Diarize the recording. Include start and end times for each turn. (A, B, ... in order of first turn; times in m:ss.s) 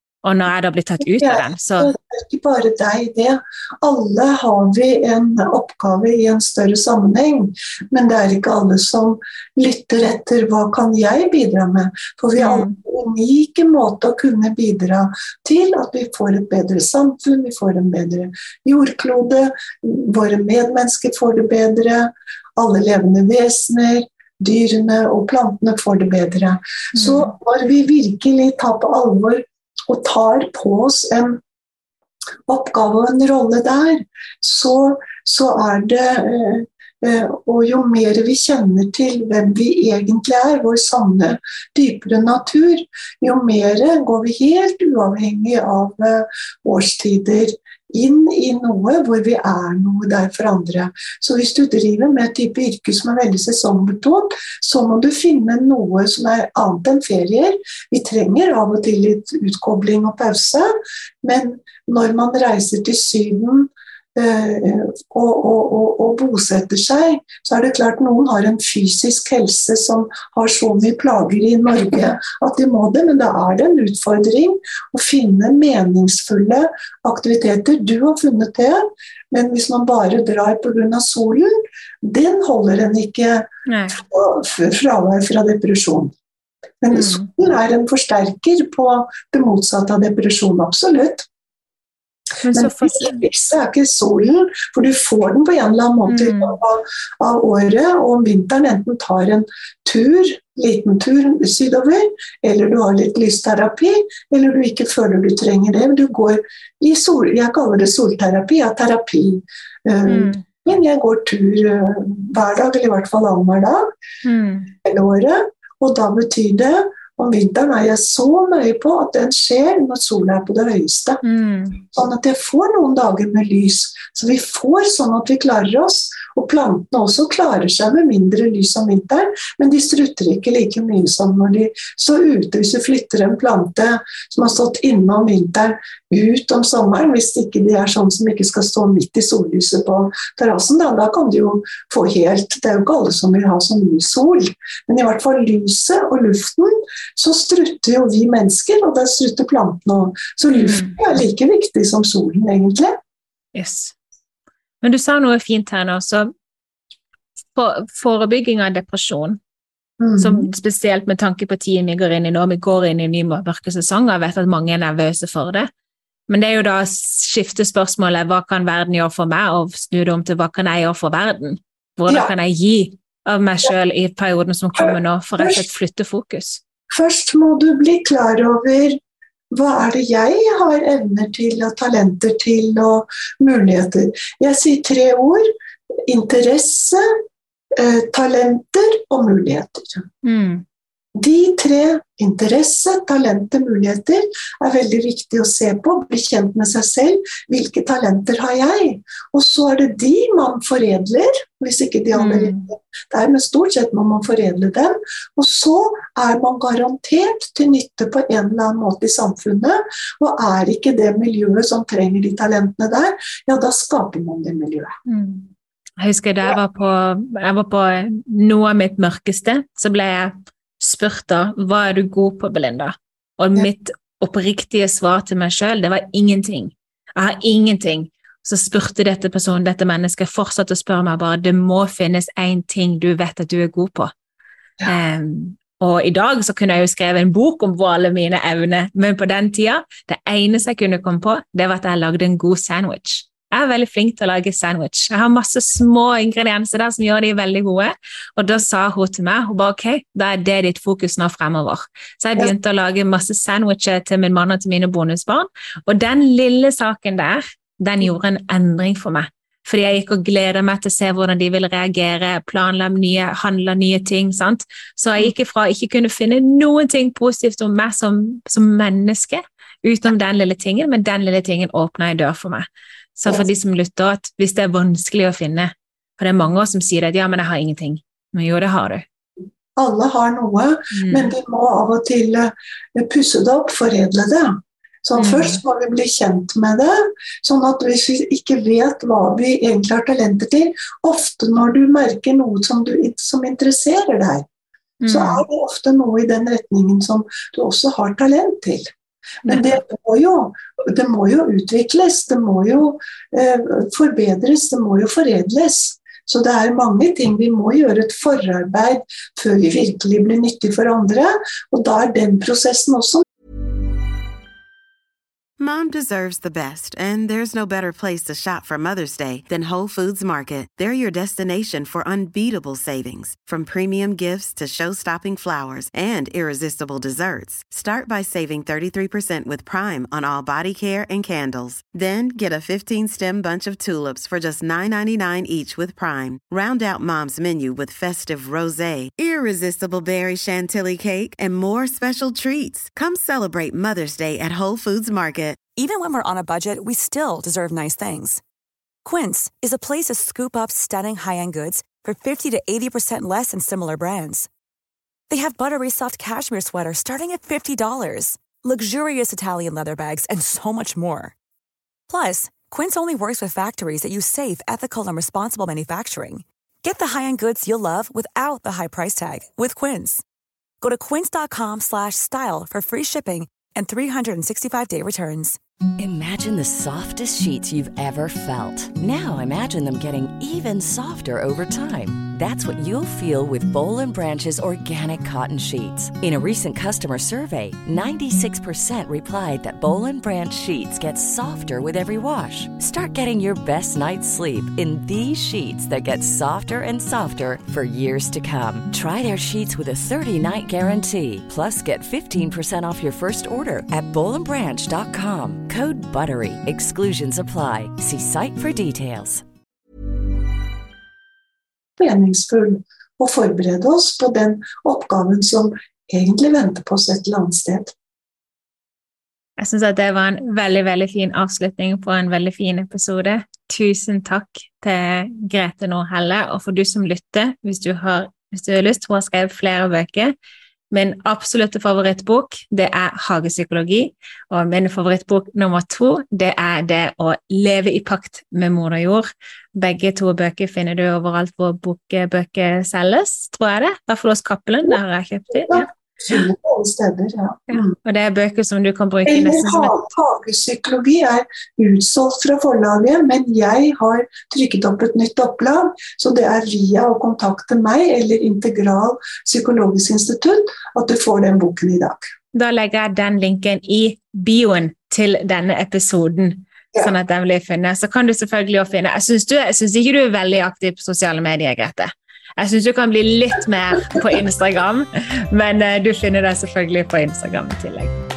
0:00.2-0:01.9 A
0:01.0-0:31.4 B
0:12.4-0:12.8 A
0:26.9-0:27.3 A
0:32.5-1:00.7 B
1:01.2-1:26.1 B
1:23.7-1:24.0 A
1:26.8-1:31.2 B
1:26.9-1:27.3 A
1:32.4-1:33.2 A
1:32.5-1:53.9 B
1:36.1-1:36.6 A
1:50.1-1:50.4 A
1:54.2-1:54.7 A
1:54.8-2:01.2 B
2:01.2-2:01.8 A
2:01.8-2:33.0 B
2:30.5-2:31.0 A
2:33.5-2:33.9 A
2:34.8-2:36.3 A
2:37.5-2:39.4 A
2:40.0-2:40.5 B
2:40.2-2:45.7 A
2:46.3-2:56.6 A
2:54.8-2:55.7 B
2:56.9-2:59.0 B
2:59.5-3:05.5 B
3:06.0-3:07.0 B
3:07.7-3:10.0 B
3:10.2-3:10.6 A
3:11.2-3:34.9 B
3:22.1-3:22.7 A
3:35.0-3:54.1 A
3:54.8-4:39.0 A
4:39.8-4:54.4 B
4:40.9-4:41.3 A
4:45.2-4:45.6 A
4:55.0-4:55.4 A
4:55.1-4:58.9 B
4:59.4-5:13.2 B
4:59.4-4:59.8 A
5:15.6-5:45.6 C
5:45.8-5:48.4 D
5:49.0-5:54.5 D
5:55.3-6:01.3 D
6:02.1-6:10.2 D
6:10.8-6:15.6 D
6:16.0-6:49.4 E
6:52.0-6:57.9 B
6:59.6-7:10.3 A
7:10.9-7:26.4 A
7:25.7-7:27.9 B
7:27.7-7:30.0 A
7:29.3-7:42.2 B
7:42.5-7:58.2 A